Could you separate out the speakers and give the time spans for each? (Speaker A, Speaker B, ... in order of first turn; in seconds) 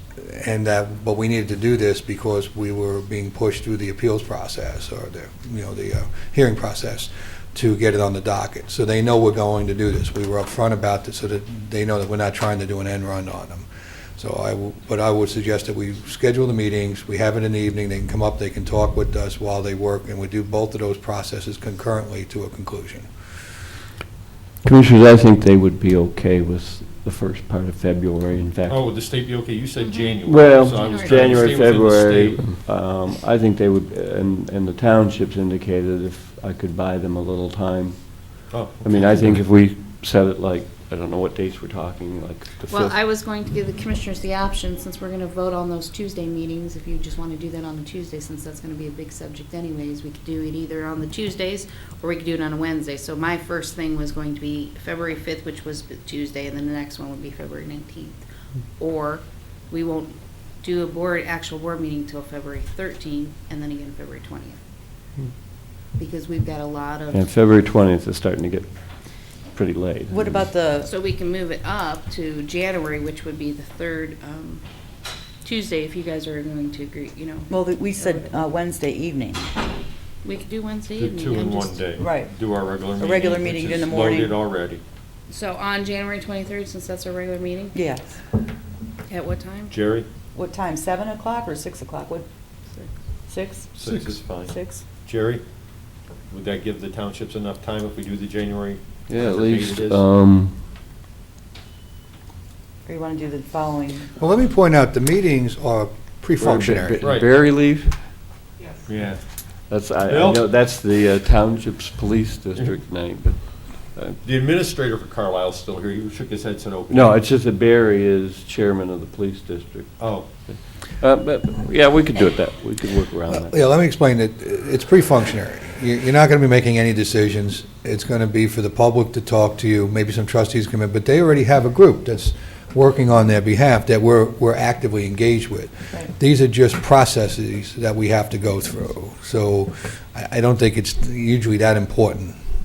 Speaker A: 0.2-23.1, 104.2-107.1, 123.3-142.3
Speaker B: 24.6-28.8, 30.2-43.0, 67.1-68.7, 69.5-70.5, 99.1-100.6, 106.4-108.0, 109.7-114.2, 116.9-123.6
Speaker C: 28.7-32.5, 38.5-39.2, 81.0-84.8, 89.7-90.1, 93.7-95.4, 96.3-100.0, 107.0-107.3, 108.9-109.2, 110.1-110.5, 114.2-117.2, 120.0-120.3
Speaker D: 29.8-31.3, 42.7-58.2, 58.8-64.6, 66.0-67.3, 70.8-74.6, 75.4-78.5, 80.2-81.9, 85.3-87.8, 89.1-89.7
Speaker E: 70.1-70.9, 77.5-79.5, 82.0-82.3, 83.0-84.4, 87.7-88.2, 90.3-92.2, 93.3-93.7, 94.3-94.8, 102.9-104.1